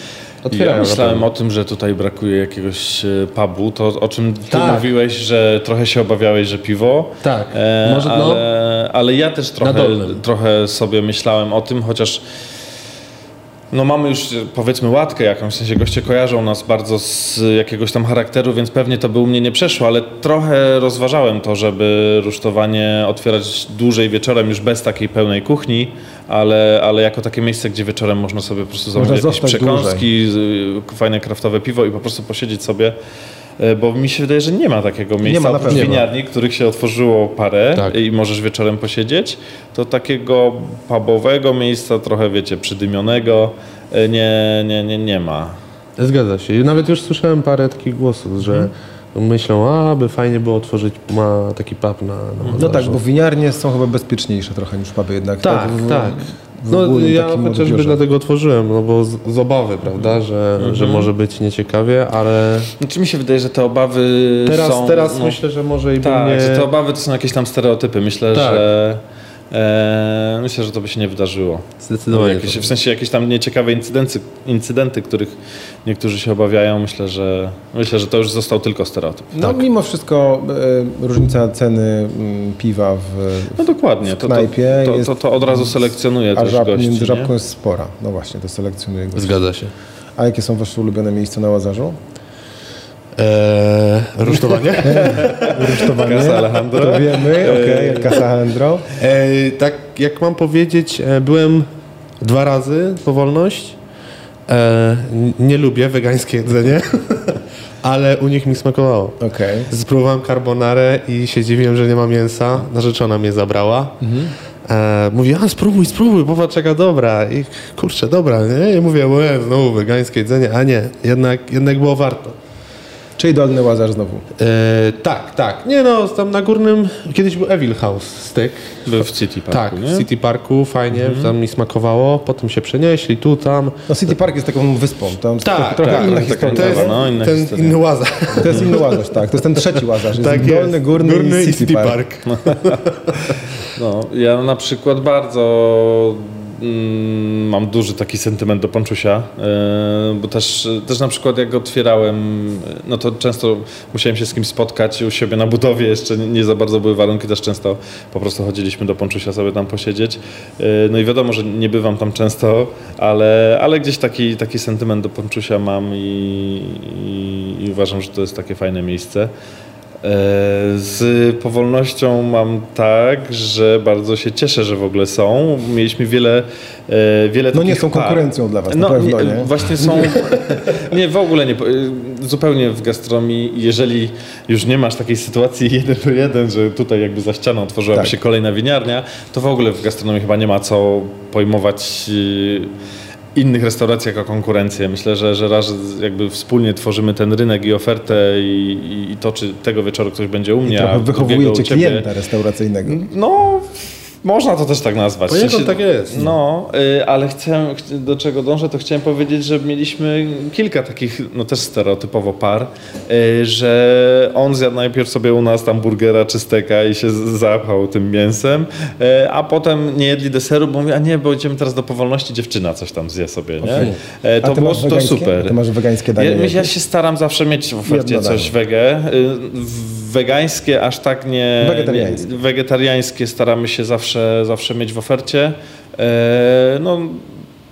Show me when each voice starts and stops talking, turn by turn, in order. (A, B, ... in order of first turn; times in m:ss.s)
0:00.4-0:01.3 A
0:00.5-0:12.2 B
0:04.5-0:04.9 A
0:07.2-0:08.4 A
0:09.6-0:10.2 A
0:13.7-0:33.0 B
0:29.0-0:30.0 C
0:33.6-0:45.6 B
0:35.2-0:36.0 C
0:35.7-0:36.0 A
0:46.0-0:53.0 A
0:48.4-0:48.7 B
0:52.4-0:52.8 B
0:52.6-0:58.0 C
0:55.4-1:02.7 A
1:00.6-1:01.1 B
1:02.8-1:05.4 B
1:04.4-1:06.7 A
1:06.0-1:19.3 B
1:08.3-1:08.6 A
1:11.8-1:12.7 A
1:19.3-1:29.5 C
1:23.6-1:27.3 B
1:29.1-1:29.7 A
1:30.2-1:32.0 C
1:33.2-1:35.4 A
1:34.8-1:38.8 C
1:35.0-1:38.2 B
1:39.0-1:41.7 A
1:42.2-1:43.8 A
1:44.5-1:54.0 A
1:49.2-1:49.7 C
1:54.0-1:54.3 C
1:54.6-2:02.4 A
2:03.2-2:04.3 C
2:04.4-2:13.8 A
2:08.8-2:10.0 B
2:10.9-2:11.3 B
2:13.9-2:17.0 C
2:15.4-2:19.0 A
2:15.8-2:17.8 B
2:18.4-2:22.0 C
2:19.7-2:23.5 A
2:22.2-2:49.3 B
2:50.0-3:12.7 B
2:57.5-3:00.2 C
3:13.3-3:22.1 B
3:20.6-3:23.0 C
3:22.8-3:45.6 B
3:25.3-3:26.3 A
3:43.6-3:43.9 C
3:44.4-3:46.7 C
3:46.2-3:57.3 B
3:47.9-3:48.5 C
3:51.6-3:52.4 C